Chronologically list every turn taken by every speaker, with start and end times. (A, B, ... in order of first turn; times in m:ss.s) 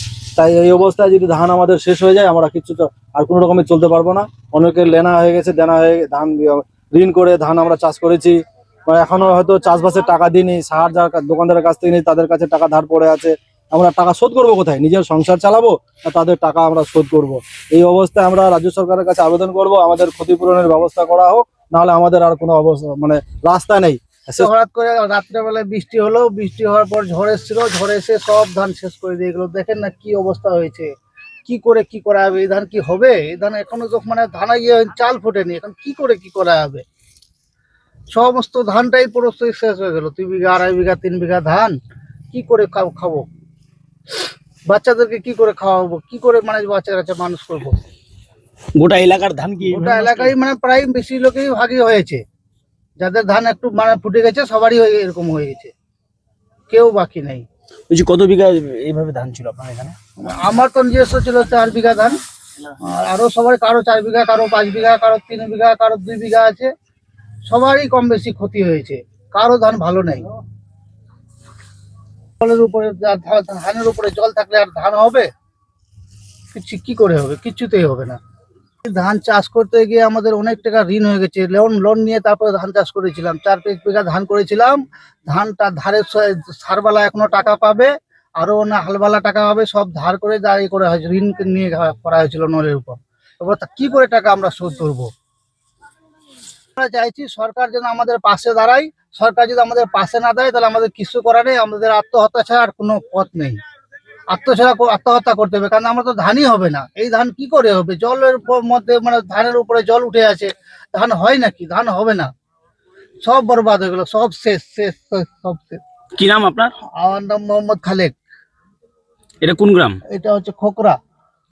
0:00.3-0:24.5 A
0:24.4-0:30.9 B
0:31.4-0:36.8 B
0:38.1-0:41.7 B
0:42.3-0:43.2 B
0:44.7-0:47.8 B
0:48.8-0:50.3 C
0:49.6-0:52.2 B
0:53.0-0:55.7 B
0:56.7-0:57.4 B
0:57.9-1:00.0 C
1:00.2-1:02.2 B
1:02.9-1:06.7 B
1:07.5-1:10.3 B
1:12.4-1:15.3 B
1:16.5-1:18.2 B
1:18.8-1:35.1 B
1:36.8-1:43.6 B
1:44.3-1:52.3 B
1:53.2-1:55.8 B
1:56.2-1:56.7 C
1:57.0-1:58.1 B
1:59.4-2:00.0 C
2:00.1-2:01.0 B